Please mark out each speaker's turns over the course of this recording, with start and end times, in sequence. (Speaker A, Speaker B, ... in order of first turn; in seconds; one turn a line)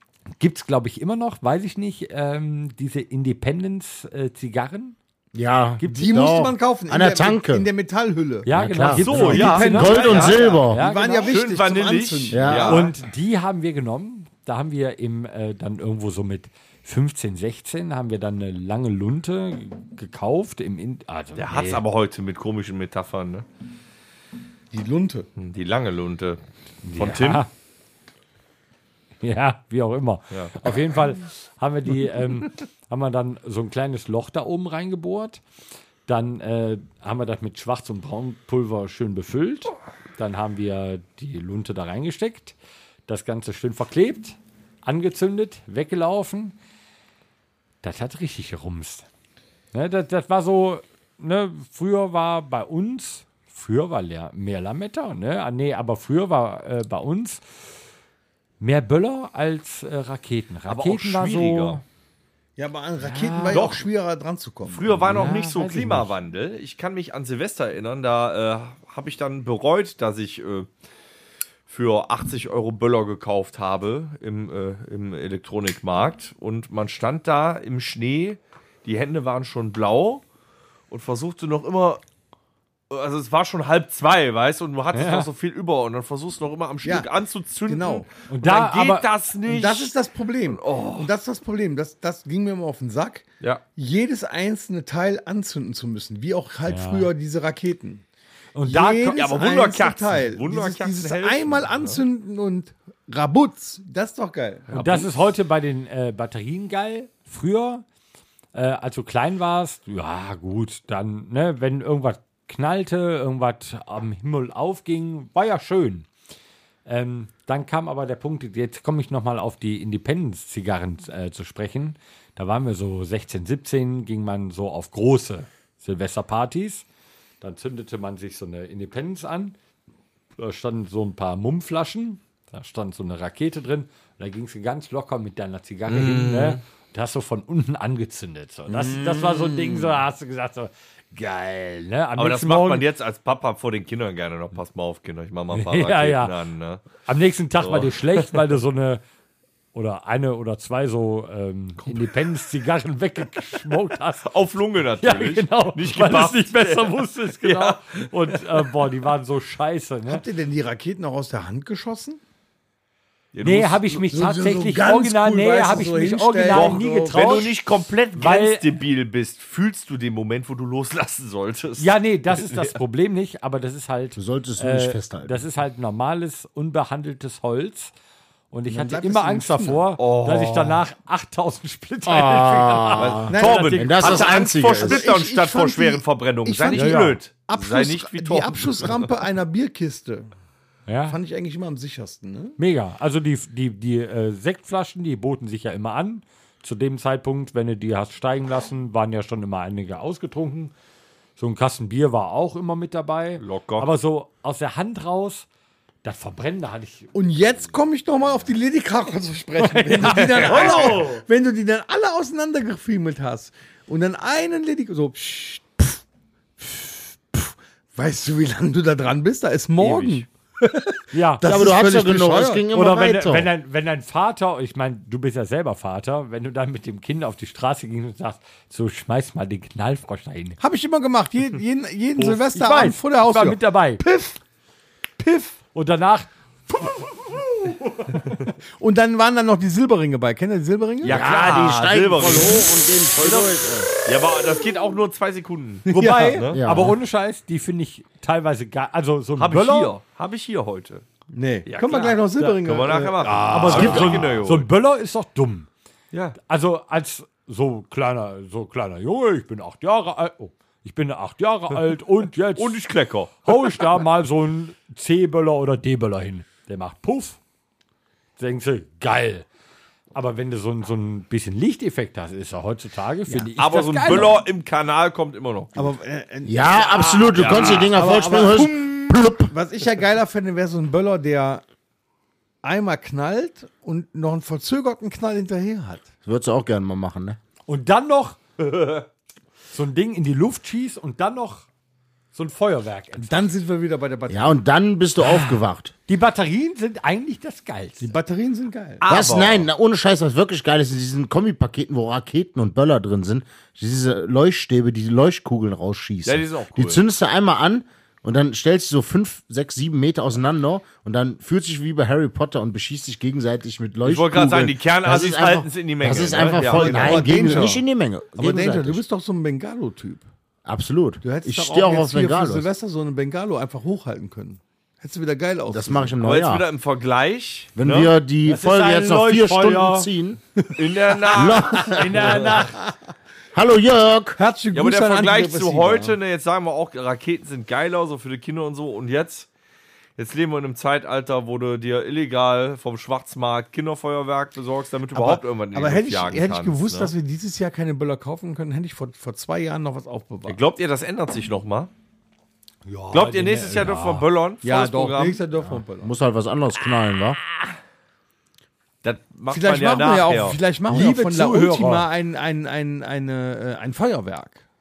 Speaker A: 0.4-5.0
Speaker B: 5.3-7.7
Speaker A: 5.8-6.2
Speaker C: 5.8-8.5
Speaker A: 8.4-11.3
Speaker B: 8.5-10.8
Speaker D: 8.9-10.6
Speaker C: 9.2-12.8
Speaker D: 11.2-12.9
Speaker B: 12.3-12.8
Speaker A: 12.7-21.8
Speaker D: 21.4-23.4
Speaker C: 24.7-25.3
Speaker D: 25.4-26.4
Speaker A: 26.8-27.5
Speaker D: 27.0-27.4
Speaker A: 29.2-35.4
Speaker D: 30.3-30.7
Speaker A: 36.0-42.5
Speaker A: 43.1-46.5
Speaker A: 47.8-49.0
Speaker A: 49.7-57.4
Speaker A: 58.6-61.8
Speaker D: 60.7-61.8
Speaker C: 62.6-65.3
Speaker A: 63.0-63.8
Speaker D: 63.5-63.8
Speaker D: 64.7-70.7
Speaker A: 65.0-66.1
Speaker D: 71.7-80.2
Speaker D: 80.9-82.0
Speaker D: 82.9-89.9
Speaker A: 84.9-85.3
Speaker C: 86.8-87.1
Speaker C: 87.7-88.1
Speaker A: 88.3-89.1
Speaker C: 89.5-98.0
Speaker D: 90.4-91.1
Speaker A: 96.7-97.1
Speaker A: 98.5-99.2
Speaker C: 98.6-105.0
Speaker D: 99.0-102.0
Speaker D: 104.7-105.0
Speaker A: 104.7-107.8
Speaker A: 108.5-116.1
Speaker A: 116.8-126.8
Speaker A: 127.4-129.6
Speaker A: 130.4-142.8
Speaker D: 135.9-136.6
Speaker C: 139.2-139.9
Speaker D: 142.2-146.9
Speaker A: 145.5-146.3
Speaker A: 147.1-149.0
Speaker D: 147.6-148.4
Speaker A: 149.7-154.3
Speaker D: 154.2-158.4
Speaker A: 155.0-160.2
Speaker C: 160.1-162.2
Speaker D: 163.3-163.9
Speaker A: 163.4-167.6
Speaker C: 164.0-167.5
Speaker D: 166.5-172.8
Speaker A: 168.1-168.7
Speaker A: 171.8-177.9
Speaker B: 174.2-175.4
Speaker A: 178.5-184.2
Speaker C: 178.7-179.8
Speaker D: 180.0-180.8
Speaker B: 182.1-185.0
Speaker D: 183.0-189.1
Speaker C: 183.3-190.3
Speaker A: 186.7-187.2
Speaker A: 190.9-191.2
Speaker C: 191.1-192.6
Speaker A: 192.6-200.7
Speaker A: 201.4-205.5
Speaker D: 203.4-203.9
Speaker A: 206.0-207.1
Speaker C: 207.1-216.0
Speaker A: 209.6-211.2
Speaker D: 210.1-211.0
Speaker C: 216.6-222.7
Speaker D: 219.8-220.2
Speaker A: 221.1-221.4
Speaker B: 221.4-223.5
Speaker A: 222.7-230.6
Speaker C: 230.6-234.4
Speaker A: 232.2-234.0
Speaker C: 235.2-235.6
Speaker A: 235.7-236.3
Speaker C: 237.0-237.7
Speaker C: 238.8-241.2
Speaker D: 241.0-242.7
Speaker B: 241.0-243.9
Speaker D: 244.0-246.6
Speaker C: 245.9-246.4
Speaker A: 245.9-249.9
Speaker B: 246.5-247.0
Speaker D: 249.4-251.0
Speaker C: 251.3-254.2
Speaker D: 251.7-254.7
Speaker A: 253.3-255.7
Speaker B: 253.7-254.2
Speaker A: 256.4-262.8
Speaker D: 262.6-263.5
Speaker A: 263.4-267.4
Speaker A: 268.4-269.5
Speaker A: 270.1-274.4
Speaker D: 273.6-275.9
Speaker C: 275.8-281.6
Speaker B: 276.4-279.5
Speaker D: 277.3-277.9
Speaker C: 282.6-286.1
Speaker B: 286.2-287.4
Speaker A: 287.7-288.4
Speaker D: 288.6-289.0
Speaker A: 289.7-291.7
Speaker A: 292.3-293.5
Speaker C: 293.2-294.5
Speaker B: 294.3-295.9
Speaker A: 296.1-298.1
Speaker C: 298.0-299.0
Speaker D: 299.0-299.7
Speaker B: 299.1-319.0
Speaker D: 306.2-307.0
Speaker D: 314.0-317.4
Speaker C: 316.4-317.8
Speaker C: 318.4-320.2
Speaker B: 320.6-322.7
Speaker C: 321.2-326.1
Speaker B: 325.7-326.6
Speaker D: 326.2-328.1
Speaker B: 327.8-330.4
Speaker A: 328.4-330.1
Speaker D: 330.8-332.0
Speaker B: 331.3-332.6
Speaker A: 331.9-332.8
Speaker B: 333.5-334.4
Speaker C: 334.4-336.1
Speaker D: 334.7-339.5
Speaker D: 340.2-347.1
Speaker C: 345.1-350.6
Speaker D: 350.4-351.9
Speaker A: 352.9-354.3
Speaker D: 353.1-355.4
Speaker C: 354.6-356.1
Speaker B: 355.6-357.4
Speaker D: 359.0-360.6
Speaker C: 359.5-364.6
Speaker A: 360.9-362.1